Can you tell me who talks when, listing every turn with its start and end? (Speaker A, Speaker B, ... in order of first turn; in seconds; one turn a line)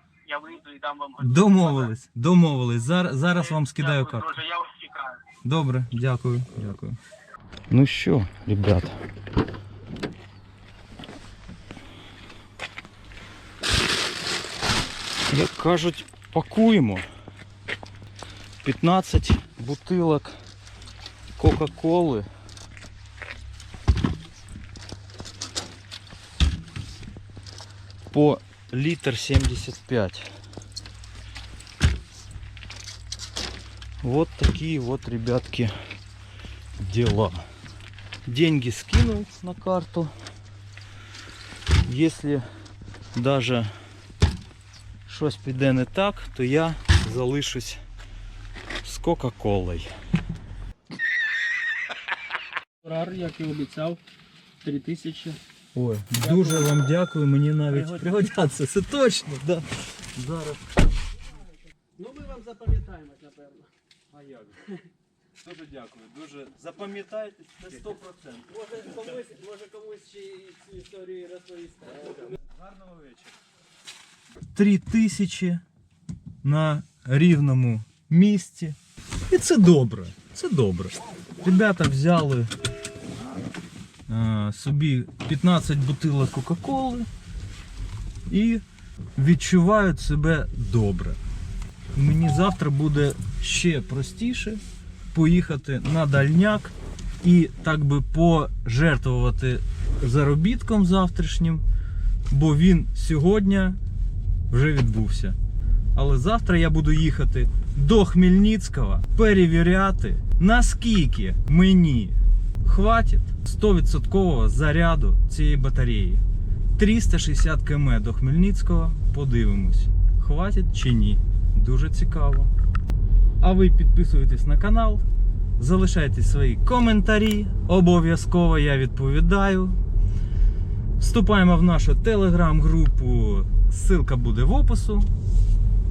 Speaker A: 0.2-1.9
Speaker B: 1.2-4.3
Speaker A: 3.4-5.2
Speaker B: 5.4-7.0
Speaker B: 7.7-9.0
Speaker B: 15.3-17.1
Speaker B: 18.6-20.4
Speaker B: 21.4-22.3
Speaker B: 28.1-30.3
Speaker B: 34.0-35.7
Speaker B: 36.8-37.4
Speaker B: 38.3-40.1
Speaker B: 41.8-42.5
Speaker B: 43.1-43.7
Speaker B: 45.1-47.8
Speaker B: 48.8-49.9
Speaker C: 52.8-54.0
Speaker C: 54.6-55.4
Speaker B: 55.7-60.6
Speaker C: 56.2-56.6
Speaker C: 62.0-64.3
Speaker B: 64.2-64.5
Speaker B: 65.4-68.7
Speaker C: 68.5-72.2
Speaker B: 72.4-73.3
Speaker B: 74.5-75.6
Speaker B: 76.4-78.8
Speaker B: 79.3-82.5
Speaker B: 84.1-87.1
Speaker B: 88.3-88.6
Speaker B: 89.2-91.2
Speaker B: 91.9-94.6
Speaker B: 95.1-101.6
Speaker B: 102.3-103.8
Speaker B: 104.5-105.4
Speaker B: 105.9-116.2
Speaker B: 116.8-122.5
Speaker B: 123.4-125.0
Speaker B: 125.6-129.8
Speaker B: 131.0-135.1